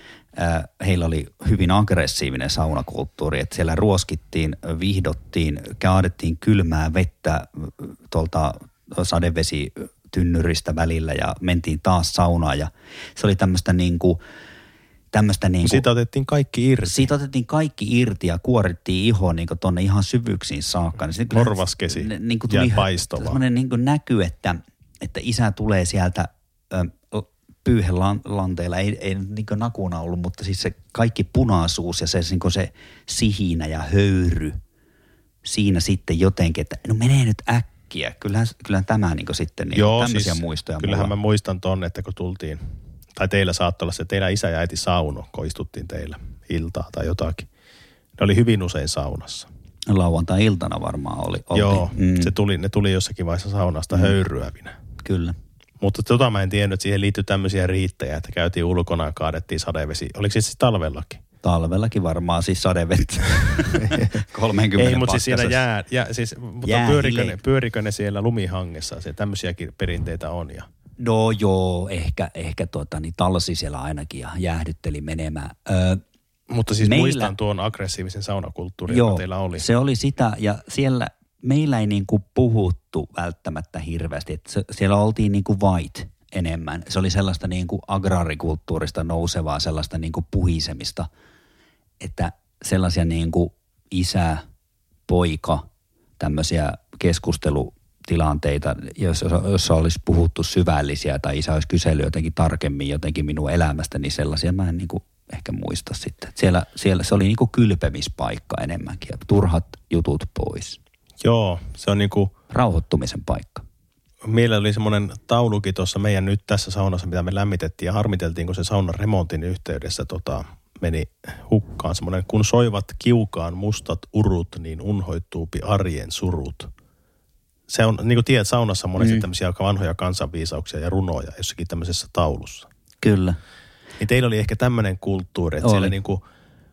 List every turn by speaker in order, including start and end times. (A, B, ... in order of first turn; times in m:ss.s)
0:00.4-0:14.2 A
0:15.1-0:15.8 A
0:15.6-0:17.1 B
0:16.8-0:34.6 A
0:21.3-0:23.4 B
0:35.4-0:41.1 A
0:39.7-0:42.6 B
0:43.1-0:47.5 B
0:48.2-0:49.5 B
0:49.9-0:52.3 A
0:51.5-0:54.8 B
0:55.0-0:55.4 A
0:55.8-1:01.2 B
1:01.4-1:05.6 A
1:03.8-1:04.1 B
1:04.8-1:10.7 B
1:06.6-1:07.4 A
1:11.0-1:16.0 A
1:16.5-1:19.6 B
1:16.8-1:17.3 A
1:18.9-1:31.1 A
1:32.0-1:34.4 A
1:35.1-1:35.7 A
1:36.2-1:50.8 A
1:51.2-1:52.3 B
1:52.5-1:53.6 A
1:54.2-2:06.7 B
2:07.7-2:12.7 B
2:09.0-2:09.2 A
2:13.0-2:13.4 A
2:14.0-2:16.2 B
2:15.6-2:15.9 A